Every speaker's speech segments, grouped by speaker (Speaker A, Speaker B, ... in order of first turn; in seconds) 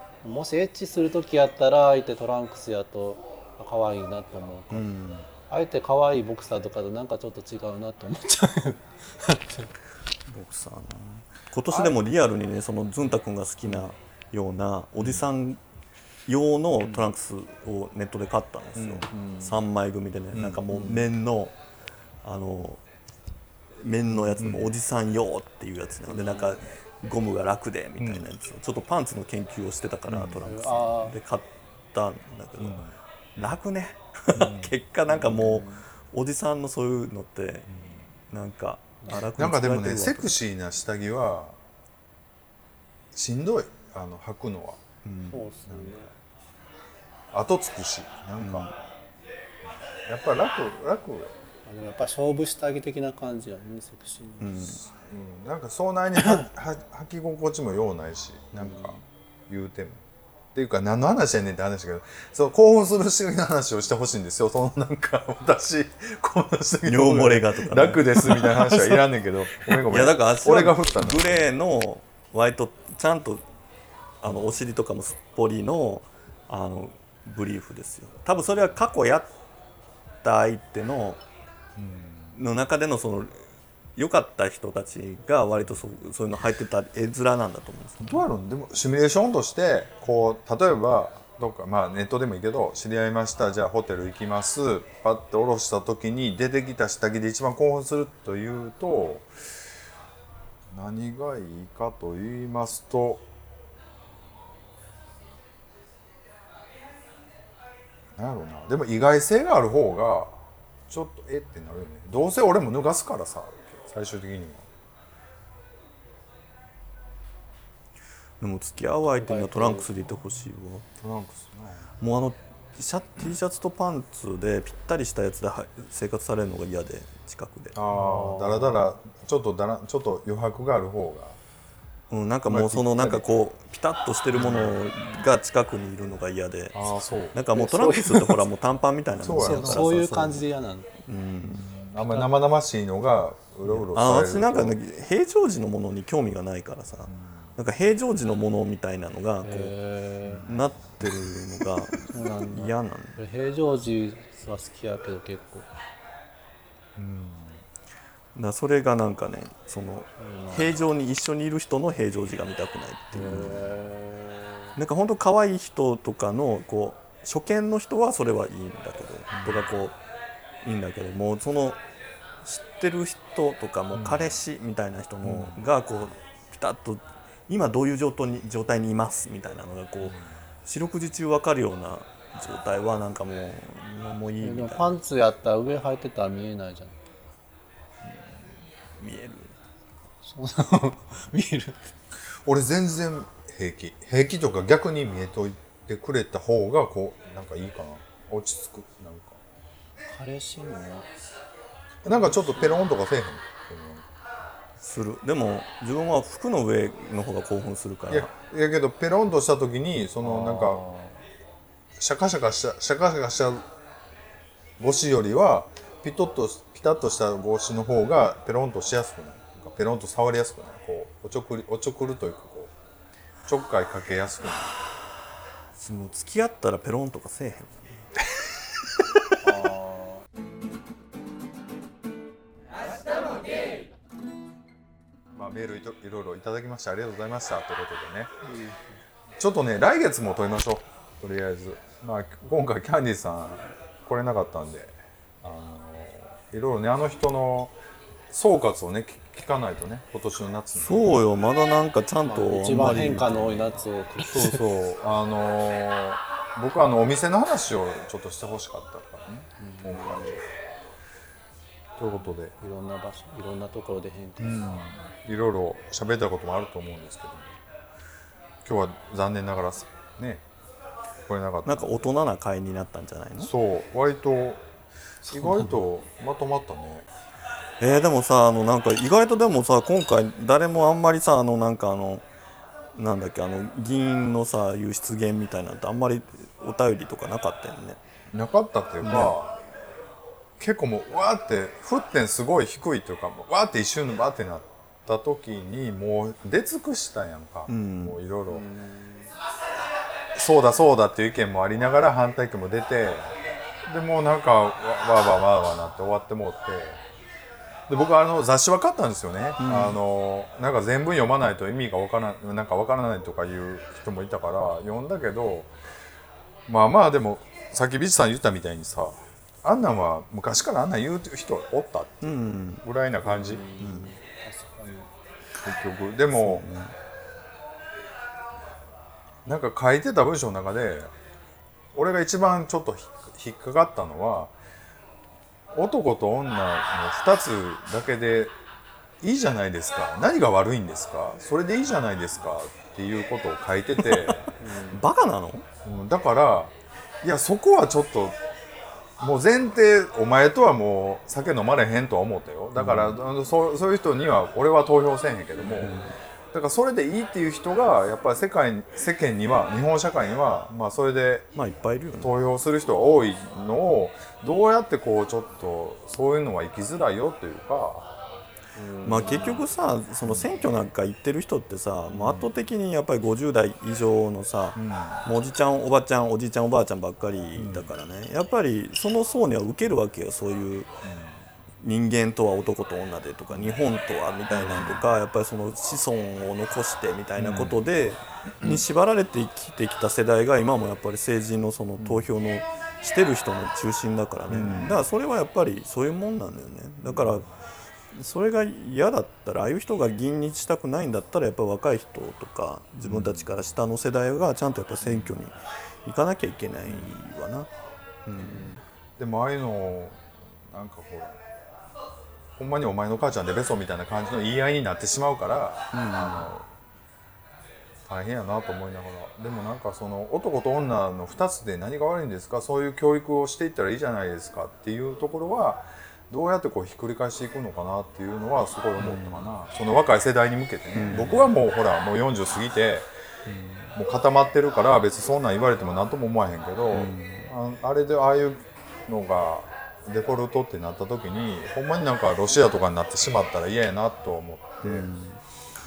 Speaker A: 0.2-4.9, 5.5-9.7, 20.7-21.0, 26.1-26.6, 30.4-31.2, 35.1-35.8, 39.0-39.3, 45.3-46.1, 51.6-54.7, 58.6-59.0, 68.5-68.8, 119.1-119.9, 127.9-128.9, 137.5-138.4, 139.2-141.0, 142.0-142.3, 149.4-150.5, 152.1-155.7, 160.2-160.7, 163.1-164.7, 184.4-187.1, 190.2-191.9, 200.1-201.1, 202.1-202.8, 210.2-211.2, 229.4-230.2, 238.4-239.0, 252.3-254.6, 259.6-260.4, 262.6-264.7, 275.2-275.7, 298.5-299.3, 323.3-325.1, 344.6-345.0, 368.7-369.6
Speaker B: 4.7-5.3, 10.3-15.6, 16.2-21.5, 22.2-22.8, 23.8-32.8, 33.4-37.7, 38.3-40.3, 45.0-45.5, 48.4-48.7, 54.4-54.8, 66.8-68.5, 69.8-73.4, 74.2-79.3, 80.2-81.2, 82.3-83.3, 84.0-88.2, 118.4-120.8, 122.0-127.7, 132.1-136.8, 137.3-140.5, 141.1-141.6, 143.7-149.7, 150.4-153.2, 158.3-163.7, 164.8-170.0, 170.6-171.8, 172.4-184.9, 188.9-189.6, 204.8-208.3, 225.8-228.1, 250.8-253.8, 271.6-273.5, 277.8-282.2, 282.9-288.0, 289.0-289.3, 297.7-298.2, 309.6-310.0, 322.2-322.8, 323.8-324.1, 326.3-326.9, 344.0-345.6, 352.8-353.2, 355.6-356.1, 361.5-362.3, 369.0-380.9, 381.8-397.5, 398.1-407.7, 408.2-408.8, 415.9-416.5, 429.0-429.5, 430.9-431.5, 433.5-433.9, 436.9-437.5, 444.8-445.4
Speaker C: 18.8-19.5, 20.3-21.0, 24.3-24.8, 28.0-28.3, 30.1-30.4, 32.6-32.9, 34.3-34.7, 37.7-38.0, 39.3-41.6, 43.1-44.8, 45.6-45.9, 47.3-48.7, 50.1-51.3, 54.6-60.0, 60.5-71.4, 81.8-82.3, 88.0-99.3, 100.7-103.2, 108.2-114.7, 121.0-121.9, 127.7-131.4, 132.4-133.2, 134.3-134.8, 136.7-137.4, 139.1-140.1, 141.4-144.8, 147.1-147.5, 150.3-150.6, 157.0-157.6, 169.3-169.7, 173.9-174.3, 175.2-175.6, 192.4-199.4, 202.0-204.1, 208.1-210.8, 212.0-213.7, 214.8-222.7, 223.5-224.7, 235.3-238.3, 239.4-247.7, 248.3-251.2, 254.2-260.4, 262.0-262.5, 264.4-267.6, 268.6-270.4, 271.2-272.1, 273.4-274.6, 275.3-277.1, 288.3-289.6, 290.6-298.6, 300.3-303.3, 303.9-307.0, 307.9-315.7, 316.7-323.6, 325.6-326.7, 329.4-331.1, 331.9-334.5, 335.7-338.5, 339.2-344.5, 345.8-348.4, 349.2-361.5, 362.1-368.1, 370.2-370.6, 372.1-372.5, 374.8-375.2, 377.6-377.9, 381.0-381.4, 383.5-383.8, 384.5-385.1, 387.4-387.8, 392.0-392.3, 394.5-395.0, 397.0-397.5, 403.0-403.6, 405.0-405.4, 406.9-407.1, 409.2-411.4, 412.6-416.7, 418.1-433.1, 433.9-445.1